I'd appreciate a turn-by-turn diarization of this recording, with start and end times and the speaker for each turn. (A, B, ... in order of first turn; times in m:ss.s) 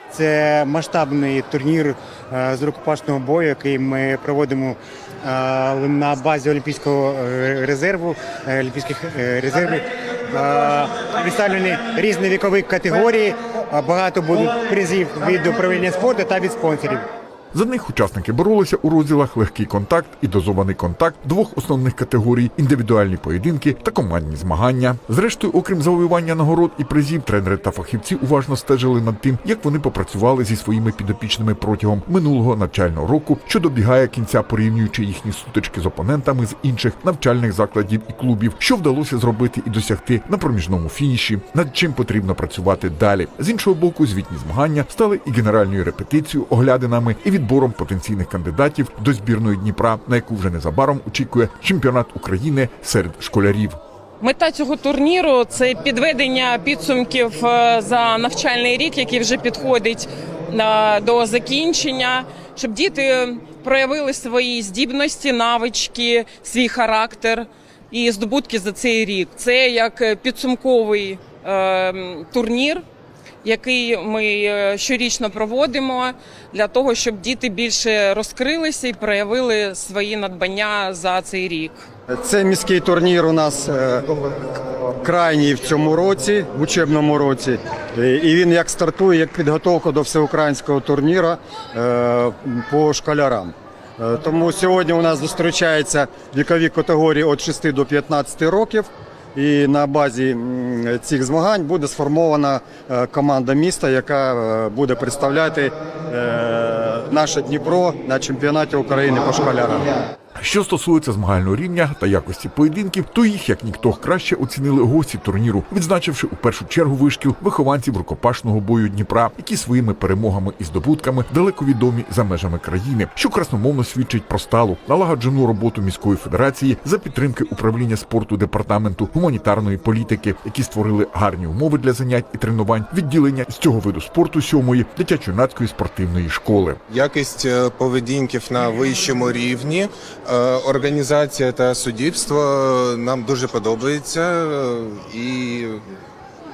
0:00.1-0:17.1 A
0:17.5-0:53.8 B
0:54.2-1:12.8 C
1:13.4-1:21.8 C
1:22.1-1:49.9 D
1:50.4-2:16.8 B
2:16.9-2:19.9 E
2:20.4-2:25.7 E